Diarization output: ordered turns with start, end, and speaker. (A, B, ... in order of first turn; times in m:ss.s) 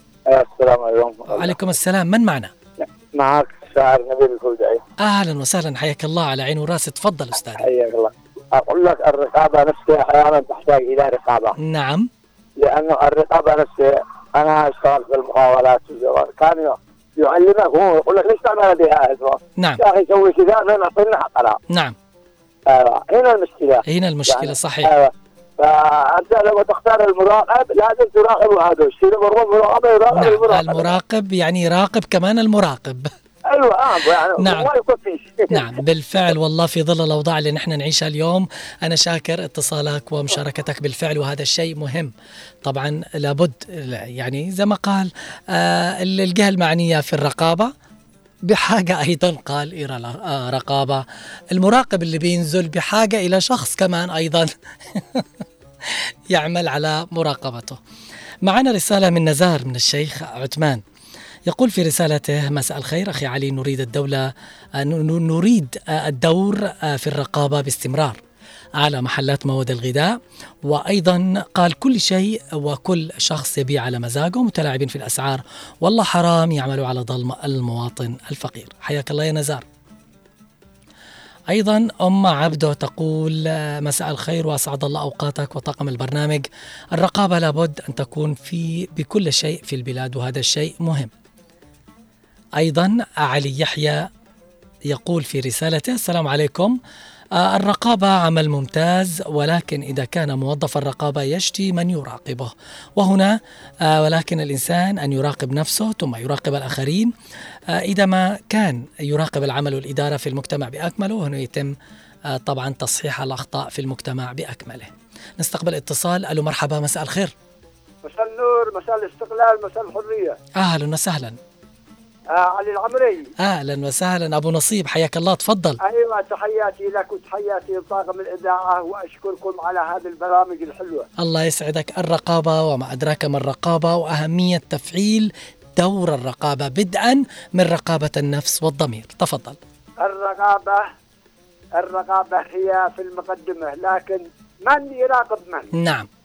0:00.3-0:01.6 A
0:01.3-0:02.5 B
0:02.8-0:04.8 A
0:05.0-0:07.7 B
0:07.6-0:11.6 A
0:11.6-0:12.1 B
0:12.6-0:21.6 A
0:21.7-0:22.0 B
0:22.7-0:31.0 A
0:23.9-0:24.9 B
0:30.1-0:33.1 B
0:33.5-0:35.8 A
0:34.4-0:34.7 B
0:35.5-0:42.1 B
0:42.6-0:47.7 B
0:48.4-0:55.2 B
0:55.9-0:57.8 B
0:58.4-1:00.8 B
1:01.5-1:08.2 B
1:08.8-1:10.1 B
1:10.6-1:19.6 B
1:21.5-1:31.1 B
1:32.6-1:34.1 B
1:34.9-1:36.8 B
1:37.4-1:47.1 B
1:47.8-1:51.7 B
1:52.3-1:57.3 B
1:58.0-2:00.4 C
2:00.6-2:01.4 B
2:02.3-2:03.3 C
2:03.4-2:05.8 B
2:05.8-2:11.1 C
2:11.2-2:19.6 B
2:20.0-2:20.8 C
2:21.8-2:25.7 C
2:25.7-2:26.1 B